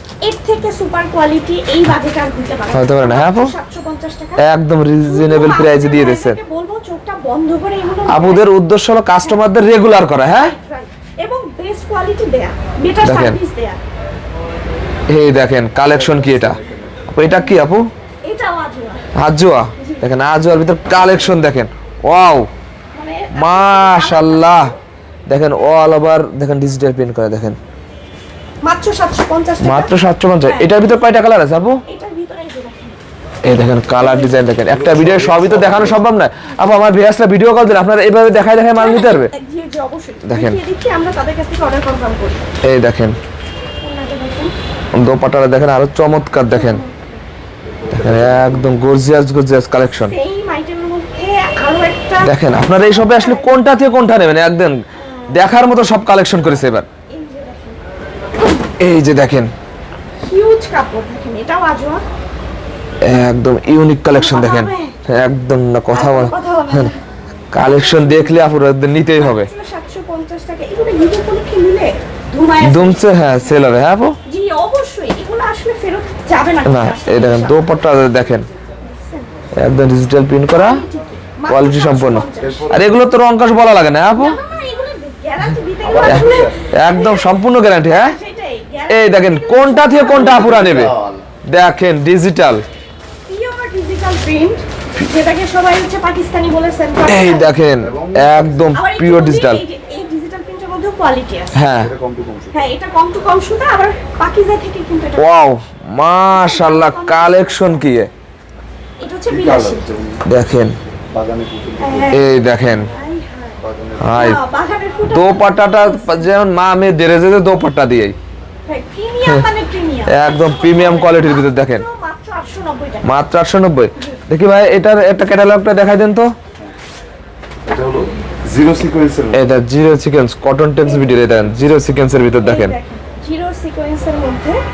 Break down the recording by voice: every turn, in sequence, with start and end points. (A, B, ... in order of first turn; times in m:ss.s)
0:00.2-0:04.5 A
0:02.7-0:03.5 B
0:04.4-0:06.4 B
0:05.0-0:08.5 A
0:08.1-0:10.5 B
0:10.2-0:13.8 A
0:13.0-0:13.4 B
0:15.1-0:16.6 B
0:15.9-0:17.0 C
0:17.1-0:17.9 B
0:17.2-0:17.6 A
0:18.2-0:19.0 A
0:19.2-0:22.5 B
0:19.8-0:20.0 A
0:22.9-0:24.8 A
0:23.4-0:24.7 B
0:25.3-0:27.6 B
0:28.6-0:31.0 A
0:29.6-0:31.8 B
0:31.8-0:33.0 A
0:33.4-0:39.3 B
0:34.0-0:34.3 A
0:34.6-0:36.1 C
0:38.7-0:42.5 A
0:40.2-0:40.6 B
0:42.6-0:43.2 B
0:43.8-0:44.5 A
0:44.9-0:46.8 B
0:46.5-0:47.2 A
0:47.6-0:48.7 C
0:47.9-0:50.2 B
0:50.0-0:53.6 A
0:52.2-0:54.8 B
0:54.9-0:57.8 A
0:55.3-0:56.9 B
0:58.4-0:58.7 A
0:58.8-0:59.5 B
1:00.2-1:02.0 A
1:03.0-1:06.9 B
1:04.1-1:05.0 A
1:05.9-1:07.0 A
1:07.5-1:09.5 B
1:07.6-1:08.5 A
1:09.1-1:13.1 A
1:12.6-1:14.2 B
1:14.2-1:17.6 A
1:16.6-1:18.5 B
1:18.8-1:19.5 A
1:19.6-1:20.8 B
1:20.5-1:22.6 A
1:21.5-1:24.4 B
1:22.4-1:23.0 C
1:24.1-1:30.9 A
1:25.8-1:26.6 C
1:26.0-1:28.2 B
1:28.9-1:30.9 B
1:30.1-1:31.2 C
1:31.5-1:32.6 B
1:33.3-1:37.6 A
1:37.0-1:39.6 B
1:37.8-1:38.7 C
1:38.8-1:41.6 A
1:41.5-1:41.9 B
1:41.8-1:42.7 C
1:42.5-1:45.3 A
1:45.2-1:48.1 B
1:46.3-1:48.0 A
1:49.0-1:49.9 A
1:49.3-1:50.2 C
1:50.2-1:50.8 B
1:51.1-1:52.2 C
1:51.8-1:56.3 A
1:52.1-1:52.9 B
1:53.6-1:54.2 C
1:54.0-1:54.4 B
1:55.1-1:58.2 B
1:58.7-2:03.1 A
2:00.1-2:01.9 B
2:03.0-2:06.3 B
2:07.6-2:09.4 C
2:09.3-2:12.8 B
2:10.9-2:11.3 A
2:12.4-2:14.6 A